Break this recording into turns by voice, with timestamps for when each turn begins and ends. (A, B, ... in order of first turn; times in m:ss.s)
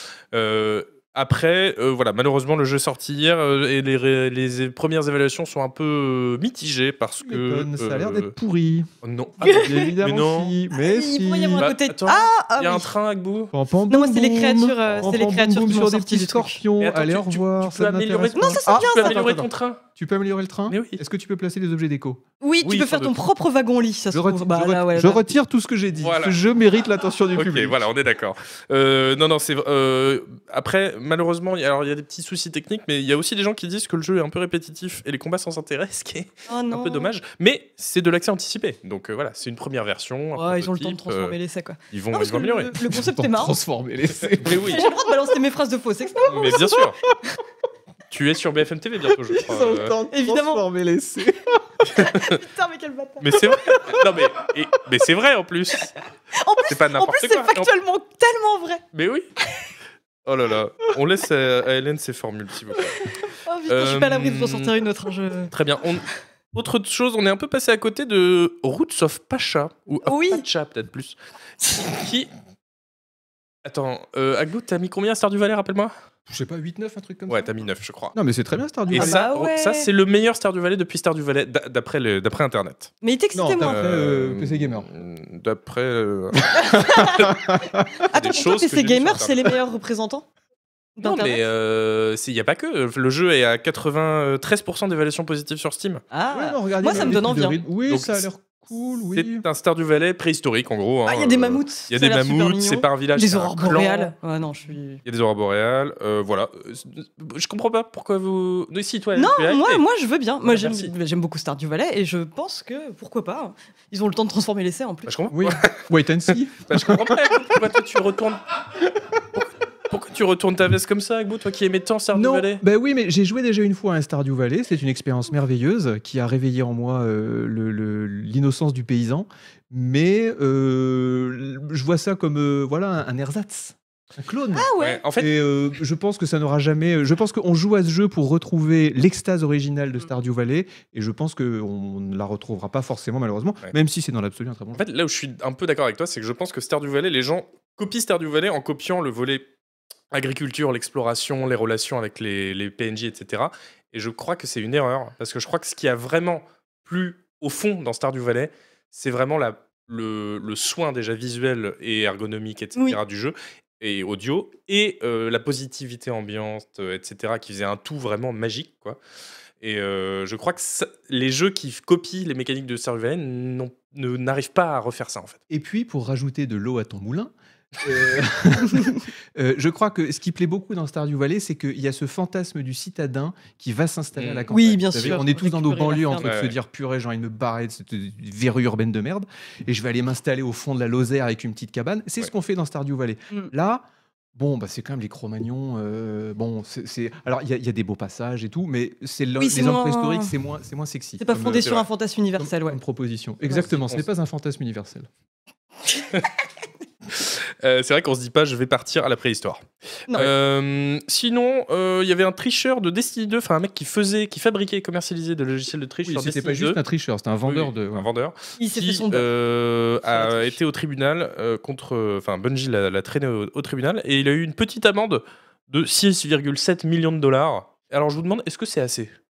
0:00.3-0:08.3 A
0:07.2-0:08.9 B
0:09.0-0:10.6 A
0:09.4-0:11.7 B
0:09.4-0:10.0 C
0:10.7-0:12.9 C
0:11.6-0:13.5 A
0:13.5-0:22.2 B
0:13.9-0:16.6 C
0:14.8-0:15.2 A
0:16.8-0:19.8 A
0:18.4-0:19.4 C
0:20.7-0:21.0 A
0:22.4-0:25.2 C
0:22.6-0:23.2 A
0:24.1-0:27.8 B
0:26.0-0:26.4 A
0:27.4-0:41.4 A
0:36.5-0:37.1 C
0:40.4-0:43.6 C
0:41.9-0:42.8 A
0:42.8-0:44.9 B
0:44.2-0:44.9 A
0:44.7-0:47.4 C
0:46.2-0:47.0 A
0:48.1-0:50.0 A
0:49.3-0:51.6 B
0:50.1-0:50.6 C
0:51.8-0:52.4 A
0:51.9-0:53.5 C
0:53.2-0:55.9 A
0:56.3-0:58.8 C
0:56.7-0:57.7 A
0:58.9-0:59.3 A
1:00.2-1:03.1 A
1:03.2-1:05.5 C
1:03.7-1:04.7 A
1:05.5-1:12.3 A
1:10.0-1:10.4 C
1:13.6-1:15.9 A
1:16.3-1:17.5 B
1:17.3-1:18.2 A
1:18.1-1:19.3 B
1:18.9-1:22.9 A
1:18.9-1:19.9 C
1:23.0-1:23.8 C
1:23.3-1:24.9 B
1:23.6-1:27.3 A
1:26.4-1:28.0 B
1:26.5-1:27.4 C
1:28.0-1:30.2 C
1:28.0-1:29.6 A
1:31.0-1:31.4 C
1:31.0-1:36.0 A
1:36.1-1:37.6 C
1:36.3-1:39.4 B
1:36.8-1:37.3 A
1:37.8-1:38.3 A
1:39.1-1:44.1 A
1:41.1-1:45.0 C
1:45.0-1:49.8 A
1:49.2-1:55.1 C
1:50.4-1:50.9 A
1:55.1-1:58.6 A
1:55.3-1:57.7 B
1:59.3-2:02.6 A
2:02.1-2:24.8 B
2:14.5-2:15.0 C
2:14.8-2:15.4 A
2:24.8-2:29.5 A
2:30.1-2:49.0 A
2:49.6-2:55.4 A
2:55.5-3:13.8 B
3:04.2-3:05.2 A
3:04.5-3:06.4 C
3:06.2-3:06.5 A
3:14.4-3:21.7 B
3:19.4-3:20.3 C
3:21.2-3:22.8 C
3:21.4-3:21.9 A
3:22.4-3:25.1 B
3:23.5-3:24.1 A
3:27.1-3:36.8 A
3:36.0-3:38.1 B
3:37.4-3:49.1 A
3:38.6-3:39.3 C
3:40.1-3:40.6 C